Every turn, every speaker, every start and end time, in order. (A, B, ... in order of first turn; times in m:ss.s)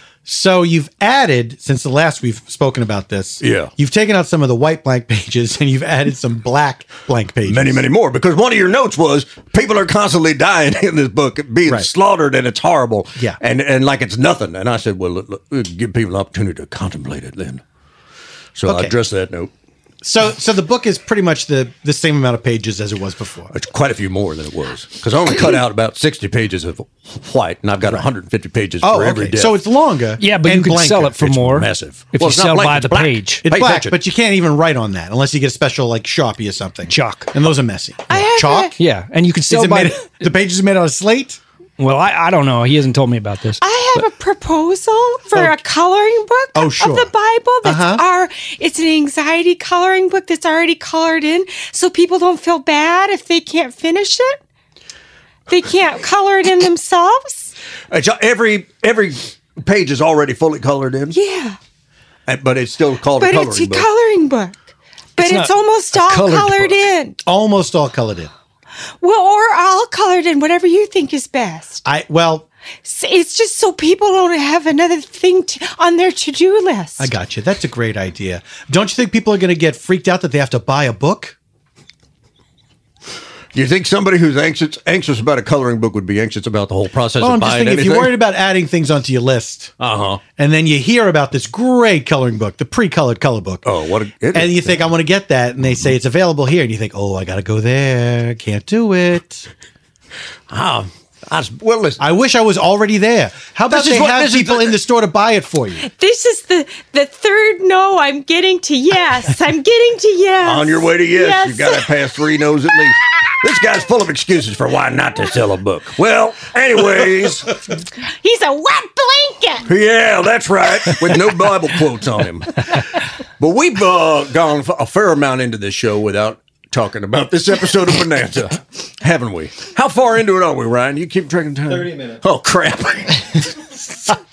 0:00.2-0:07.8 A
0:03.4-0:03.7 B
0:07.4-0:17.6 B
0:18.6-0:19.5 B
0:18.6-0:18.9 A
0:20.0-0:23.5 A
0:23.5-0:29.6 B
0:28.8-0:31.3 A
0:30.2-0:33.4 C
0:31.2-0:34.0 B
0:33.4-0:38.7 A
0:36.9-0:37.3 C
0:38.1-0:38.7 D
0:38.8-0:40.1 C
0:39.5-0:41.4 A
0:41.8-0:43.6 C
0:43.6-0:54.4 D
0:45.3-0:45.6 A
0:46.5-0:47.1 A
0:47.6-0:48.0 A
0:55.5-0:57.5 D
0:57.9-1:01.2 B
1:01.1-1:01.6 D
1:02.2-1:03.9 B
1:03.2-1:04.6 D
1:05.2-1:07.2 D
1:05.2-1:06.8 C
1:07.2-1:08.3 A
1:09.0-1:11.8 D
1:11.8-1:12.4 A
1:12.8-1:17.1 D
1:17.0-1:21.4 A
1:23.5-1:28.2 B
1:27.2-1:29.7 A
1:29.8-1:30.2 B
1:30.4-1:33.7 A
1:33.6-1:34.8 B
1:34.3-1:39.5 A
1:40.5-1:42.0 B
1:42.0-1:45.8 A
1:43.7-1:44.8 B
1:45.8-1:51.9 D
1:50.4-1:57.6 B
1:58.2-1:59.7 D
1:59.7-2:02.8 B
2:03.4-2:14.2 B